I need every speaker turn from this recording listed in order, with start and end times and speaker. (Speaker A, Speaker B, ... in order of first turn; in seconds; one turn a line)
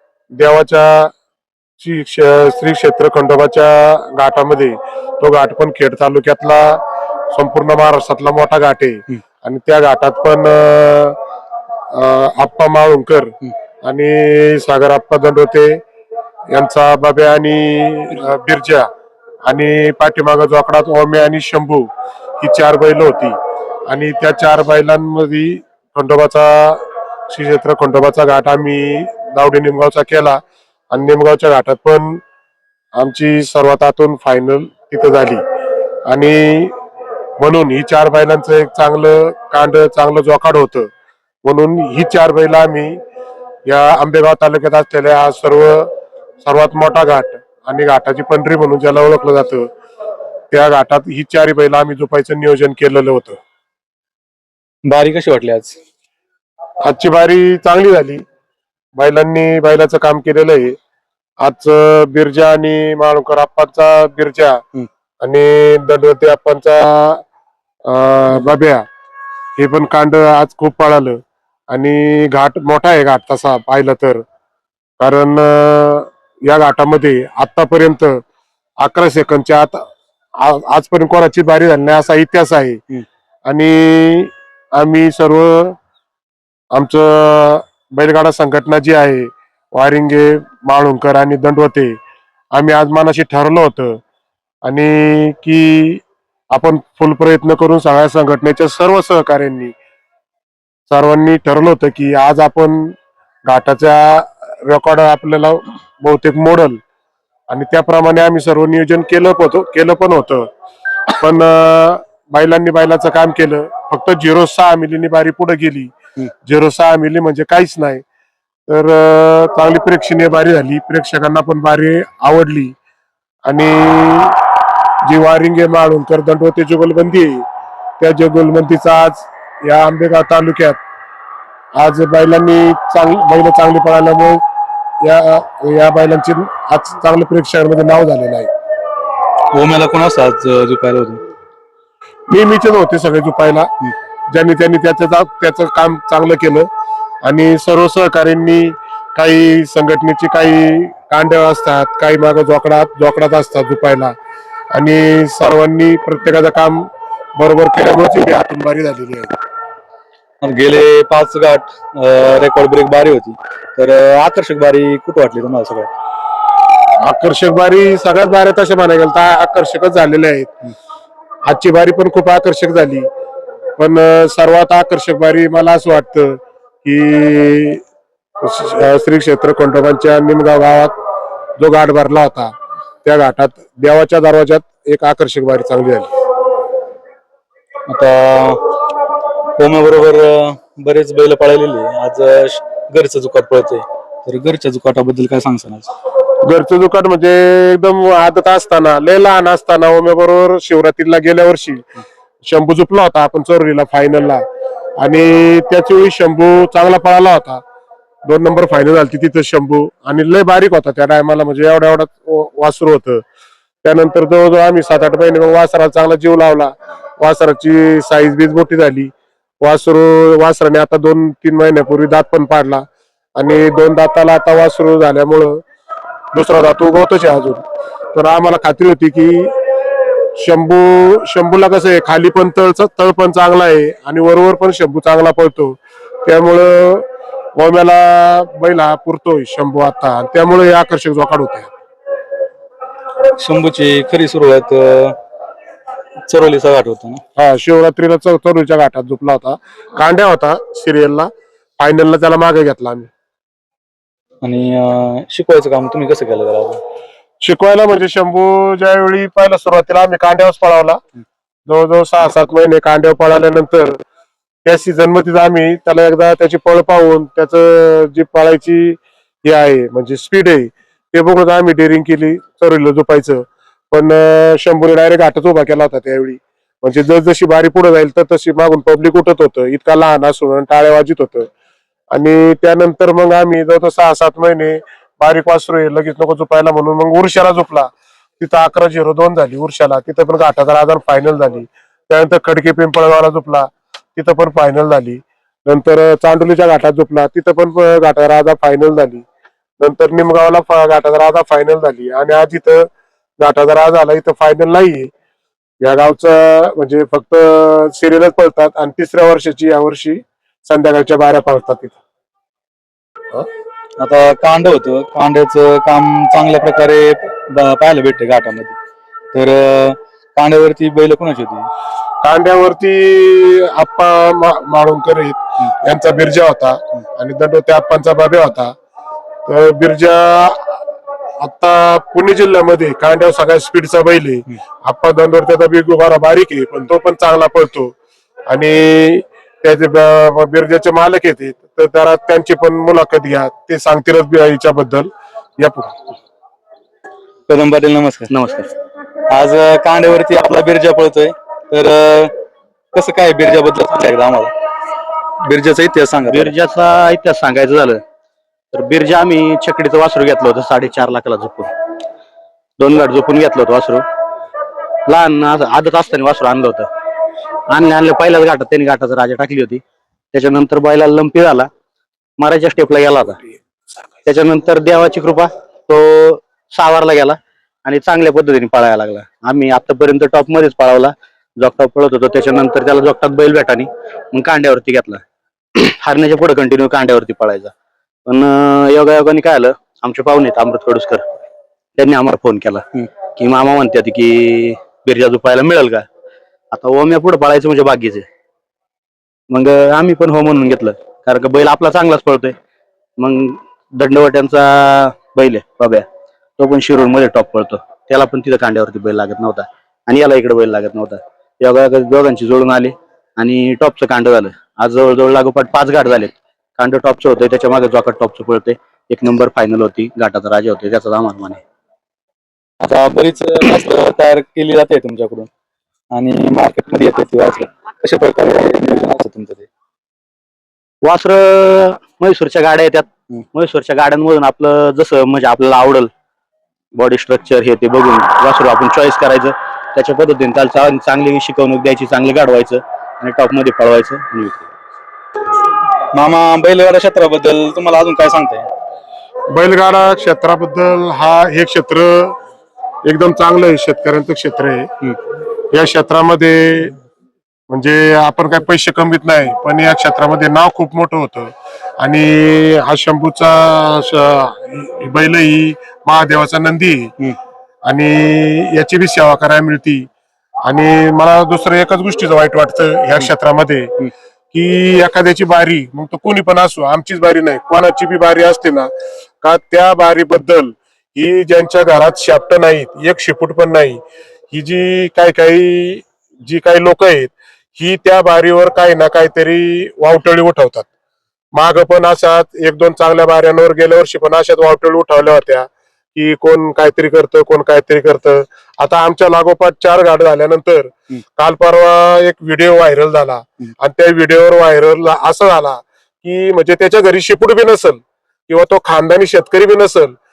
Speaker A: 0.3-1.1
Speaker A: 1.8-11.2
Speaker A: 11.9-15.8
Speaker A: 16.5-18.9
Speaker A: 19.4-21.9
Speaker A: 22.4-23.4
Speaker A: 23.9-30.4
Speaker A: 30.9-32.2
Speaker A: 32.9-35.4
Speaker A: 36.1-36.7
Speaker A: 37.4-40.9
Speaker A: 41.4-43.0
Speaker A: 43.6-45.9
Speaker A: 46.4-49.7
Speaker A: 50.5-53.4
Speaker B: 54.9-55.8
Speaker A: 56.8-58.2
Speaker A: 58.9-60.8
Speaker A: 61.4-64.6
Speaker A: 65.2-67.2
Speaker A: 67.8-68.8
Speaker A: 69.6-71.2
Speaker A: 71.7-74.2
Speaker A: 75.0-78.2
Speaker A: 78.8-79.8
Speaker A: 80.4-82.8
Speaker A: 83.5-85.8
Speaker A: 86.7-92.0
Speaker A: 92.5-94.0
Speaker A: 94.6-96.0
Speaker A: 96.5-99.7
Speaker A: 100.9-102.9
Speaker A: 103.5-106.8
Speaker A: 107.5-110.5
Speaker A: 111.2-115.9
Speaker A: 116.4-118.0
Speaker A: 118.7-122.7
Speaker A: 123.4-124.4
Speaker A: 125.0-127.4
Speaker A: 128.0-130.8
Speaker A: 131.7-134.4
Speaker A: 135.0-138.5
Speaker B: 139.5-141.2
Speaker A: 142.3-143.7
Speaker A: 144.3-146.7
Speaker A: 147.2-154.1
Speaker A: 154.7-159.3
Speaker B: 160.4-165.9
Speaker A: 167.0-170.5
Speaker A: 171.4-173.1
Speaker A: 173.8-177.8
Speaker A: 178.4-180.9
Speaker A: 181.6-182.5
Speaker A: 183.0-186.1
Speaker B: 187.9-188.6
Speaker B: 189.6-195.9
Speaker A: 196.4-201.8
Speaker A: 202.4-204.4
Speaker A: 205.0-207.6
Speaker A: 208.2-213.2
Speaker A: 213.8-222.8
Speaker A: 223.3-225.6
Speaker A: 226.3-227.6
Speaker A: 228.1-229.5
Speaker A: 230.4-241.7
Speaker B: 243.4-245.1
Speaker B: 246.2-247.2
Speaker A: 247.3-253.1
Speaker B: 254.4-256.8
Speaker A: 257.4-261.0
Speaker A: 261.7-264.0
Speaker A: 264.6-281.5
Speaker A: 282.1-299.2
Speaker A: 299.8-302.9
Speaker A: 303.4-305.1
Speaker A: 305.8-312.0
Speaker B: 314.0-318.7
Speaker B: 319.3-321.7
Speaker A: 322.2-328.7
Speaker A: 329.5-330.8
Speaker A: 331.4-337.9
Speaker A: 338.5-345.9
Speaker B: 347.5-348.3
Speaker C: 348.3-348.7
Speaker B: 349.3-352.3
Speaker B: 352.9-354.5
Speaker B: 355.4-356.5
Speaker C: 356.3-358.0
Speaker C: 358.7-361.7
Speaker C: 362.8-364.0
Speaker C: 365.1-366.9
Speaker C: 367.7-371.7
Speaker C: 372.4-373.4
Speaker C: 374.2-385.2
Speaker C: 385.7-387.7
Speaker C: 388.2-391.2
Speaker C: 391.9-396.0
Speaker C: 396.7-398.2
Speaker C: 399.5-402.6
Speaker C: 403.2-406.1
Speaker C: 406.6-421.6
Speaker B: 422.8-425.5
Speaker B: 426.1-429.7
Speaker C: 431.0-436.1
Speaker C: 436.9-444.7
Speaker B: 446.1-448.7
Speaker A: 449.5-452.4
Speaker A: 453.0-454.9
Speaker A: 455.7-456.9
Speaker A: 457.7-467.3
Speaker A: 467.8-470.1
Speaker A: 470.6-478.9
Speaker A: 479.4-490.9
Speaker A: 491.5-510.1